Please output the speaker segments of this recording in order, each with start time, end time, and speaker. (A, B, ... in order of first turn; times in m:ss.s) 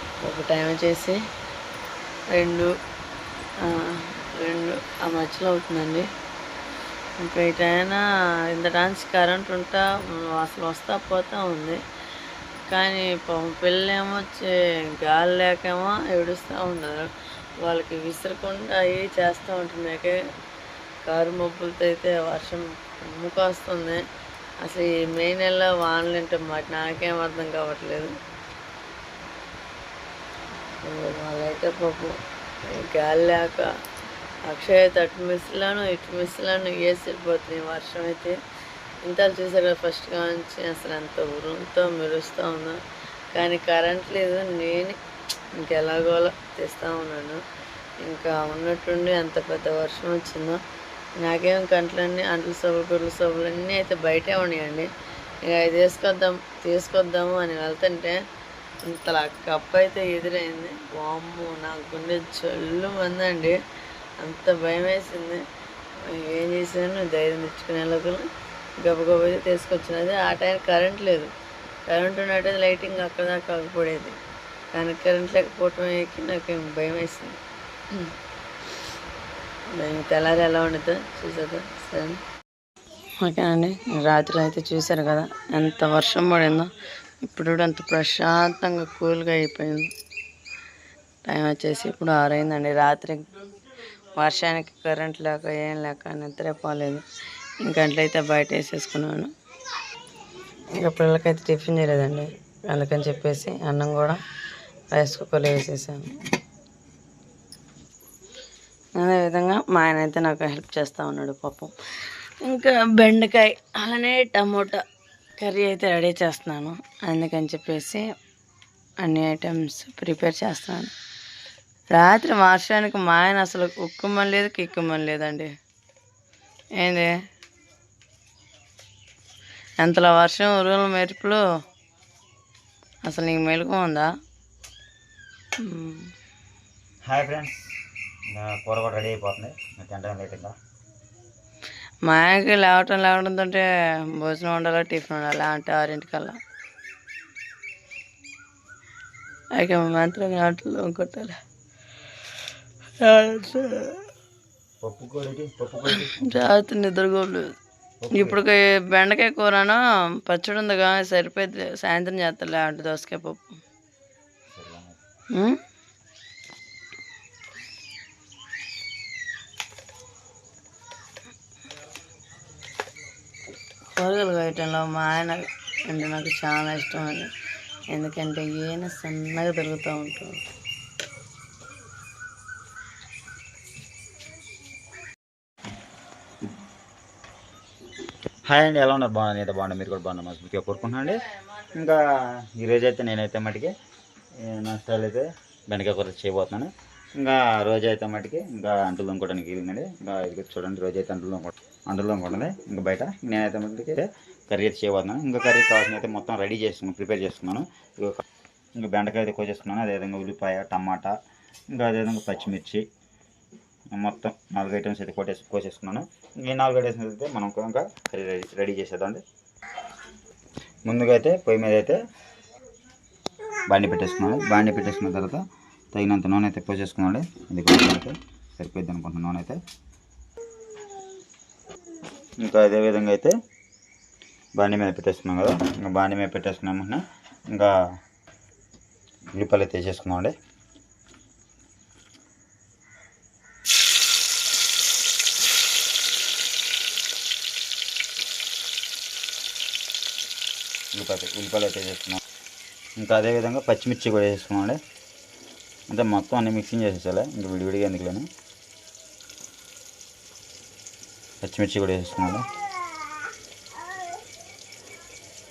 0:00.2-0:01.2 A
0:02.3-0:02.7 A
0:03.6-0:06.1 A
0:07.2-0:11.8 A
0:12.7-0:17.1 A
0:17.6-0:20.2 A
0:21.1-0:24.0 A
0:24.6-0:28.1 A
0:30.8-0:33.7 A
0:34.5-0:38.4 A
0:39.0-0:42.8 A
0:43.3-0:45.0 A
0:45.6-0:47.4 A
0:48.0-0:50.6 A
0:51.2-0:54.9 A
0:55.4-0:58.2 A
0:58.8-1:03.6 A
1:04.2-1:05.4 A
1:06.0-1:08.3 A
1:08.8-1:11.3 A
1:11.9-1:14.2 A
1:14.7-1:17.4 A
1:19.7-1:22.2 A
1:23.2-1:29.9 A
1:31.2-1:33.3 A
1:34.1-1:37.0 A
1:37.6-1:39.3 A
1:40.8-1:44.2 A
1:44.9-1:46.1 A
1:49.0-1:54.8 A
1:55.4-1:58.1 A
1:59.0-2:00.9 A
2:01.9-2:05.5 A
2:06.8-2:07.2 A
2:09.8-2:11.4 A
2:13.0-2:14.1 A
2:15.6-2:16.1 A
2:17.0-2:20.6 B
2:22.0-2:26.4 A
2:29.6-2:31.4 A
2:33.0-2:34.0 A
2:34.8-2:36.6 B
2:35.9-2:37.6 A
2:38.0-2:38.4 B
2:38.1-2:43.6 A
2:44.5-2:45.0 B
2:45.3-2:45.6 A
2:54.0-2:57.3 A
2:57.9-3:00.4 A
3:08.5-3:13.7 B
3:14.4-3:28.2 B
3:28.8-3:31.2 B
3:31.7-3:32.9 B
3:33.9-3:39.2 B
3:40.9-3:42.0 B
3:43.7-3:49.6 B
3:52.4-3:53.4 B
3:54.6-3:57.8 B
3:59.3-4:00.4 B
4:10.9-4:12.2 B
4:13.0-4:14.8 B
4:15.9-4:18.3 B
4:21.4-4:22.4 B